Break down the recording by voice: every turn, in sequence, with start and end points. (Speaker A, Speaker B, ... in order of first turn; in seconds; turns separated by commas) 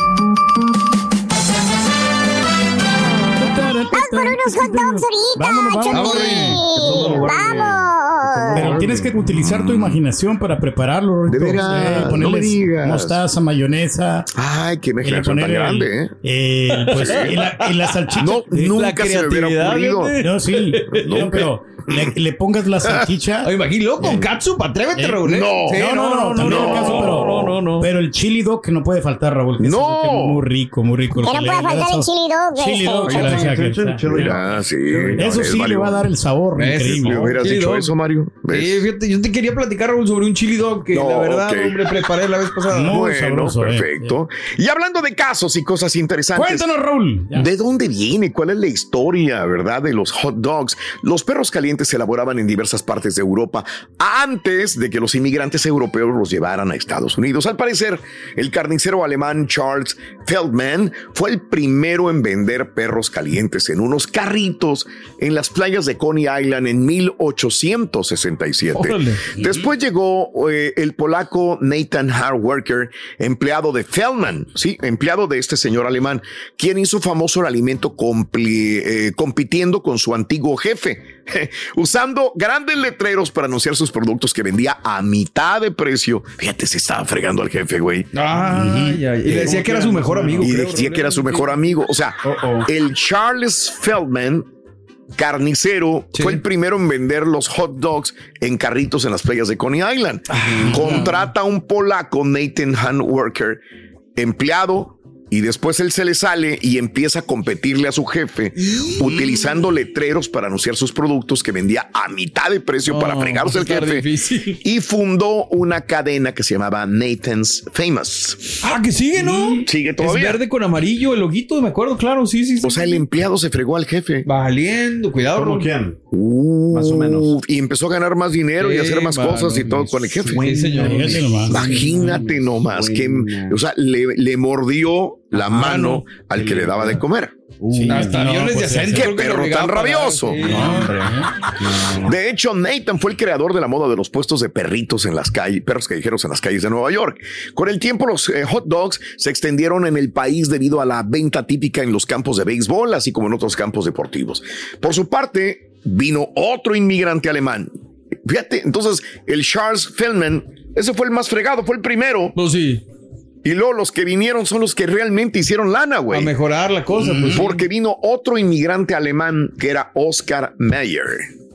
Speaker A: 3.4-7.5, Speaker B: 3.9-8.7, Speaker C: 5.9-7.4, Speaker D: 6.7-7.8, Speaker D: 8.3-9.1, Speaker A: 8.5-14.3, Speaker E: 9.3-10.0, Speaker E: 11.3-13.2, Speaker E: 14.3-16.1, Speaker A: 15.0-18.8, Speaker C: 16.8-18.1, Speaker E: 17.0-17.3, Speaker E: 18.2-20.2, Speaker C: 18.7-21.3, Speaker A: 20.2-23.5, Speaker E: 20.9-22.1, Speaker C: 23.4-27.9, Speaker E: 24.0-24.3, Speaker A: 25.0-34.4, Speaker E: 25.2-27.3, Speaker E: 29.6-30.4, Speaker B: 31.2-33.4, Speaker D: 33.0-35.4, Speaker E: 34.0-36.1, Speaker A: 35.2-37.4, Speaker C: 36.6-37.9, Speaker E: 37.0-38.9, Speaker C: 38.5-43.0, Speaker E: 40.9-41.8, Speaker A: 42.7-44.1, Speaker E: 42.8-46.7, Speaker A: 46.4-47.5, Speaker E: 47.3-88.1, Speaker C: 68.7-69.3, Speaker C: 88.1-91.5, Speaker A: 88.5-89.0, Speaker D: 89.2-90.6, Speaker E: 90.4-94.5, Speaker D: 92.2-92.7, Speaker E: 95.2-103.6, Speaker C: 96.1-96.4, Speaker C: 100.3-101.2, Speaker D: 100.5-100.9, Speaker E: 104.2-114.1, Speaker C: 108.5-109.6, Speaker C: 112.9-114.6, Speaker E: 114.6-118.6, Speaker C: 118.6-123.0, Speaker E: 119.7-120.4, Speaker E: 122.6-124.3, Speaker C: 124.2-125.7, Speaker D: 125.3-126.0, Speaker E: 126.1-130.6, Speaker D: 126.7-127.3, Speaker C: 128.6-131.4, Speaker D: 130.1-133.6, Speaker A: 130.8-131.6, Speaker E: 131.5-137.4, Speaker D: 135.4-137.0, Speaker C: 135.4-136.1, Speaker D: 137.6-138.2, Speaker A: 137.7-139.1, Speaker C: 137.9-141.0, Speaker E: 138.9-140.7, Speaker D: 140.4-142.1, Speaker A: 140.5-141.3, Speaker E: 142.0-157.7, Speaker E: 158.2-162.4, Speaker C: 162.4-162.8, Speaker E: 163.4-166.3, Speaker C: 166.1-167.7, Speaker A: 167.0-167.4, Speaker E: 167.2-171.3